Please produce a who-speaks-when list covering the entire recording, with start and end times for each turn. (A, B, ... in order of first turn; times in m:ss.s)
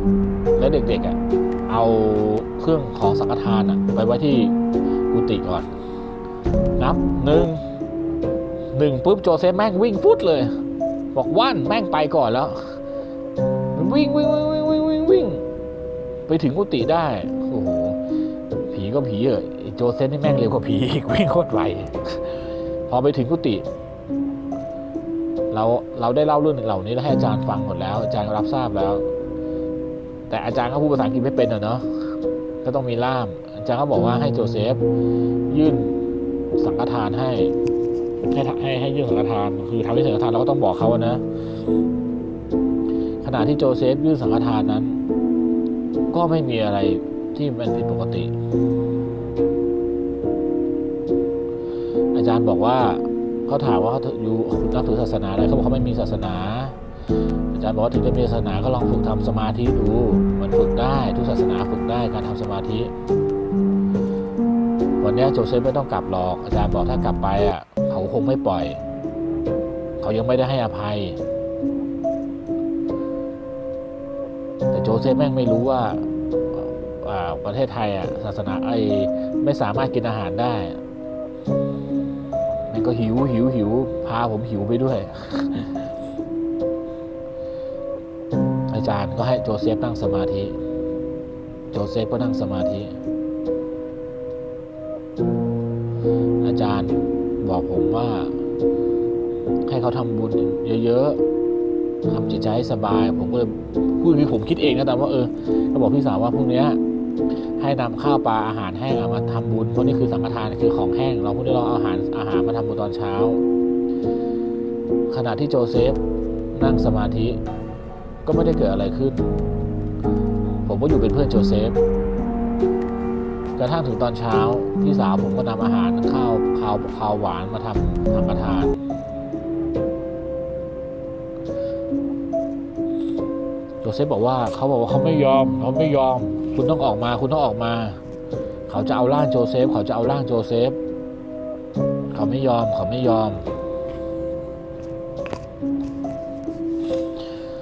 0:00.6-0:04.5 A
0:05.1-0:05.7 A
0:06.8-0:07.6 A
0:08.7-0:10.5 A
0:11.1-0:12.8 A
0:13.7-0:15.4 A
0:16.3-0:18.0 A
0:18.7-0:22.2 A
0:22.9-0:23.6 A
0:25.5-0:29.0 A
0:30.3-0:31.8 A
0:32.6-0:34.8 A
0:35.5-0:36.0 A
0:36.6-0:37.5 A
0:38.3-0:41.2 A
0:43.2-0:45.0 A
0:46.1-0:48.3 A
0:52.1-0:56.8 A
0:57.5-1:02.9 A
1:05.0-1:08.8 A
1:10.0-1:11.2 A
1:14.7-1:20.8 A
1:22.7-1:25.8 A
1:28.7-1:30.6 A
1:31.7-1:32.9 A
1:36.4-1:38.4 A
1:39.6-1:41.2 A
1:42.0-1:46.8 A
1:47.6-1:53.4 A
1:55.1-1:56.0 A
1:56.5-1:57.4 A
1:58.2-1:59.3 A
2:00.6-2:01.8 A
2:03.6-2:08.8 A
2:13.8-2:18.0 A
2:18.7-2:20.8 A
2:22.1-2:23.4 A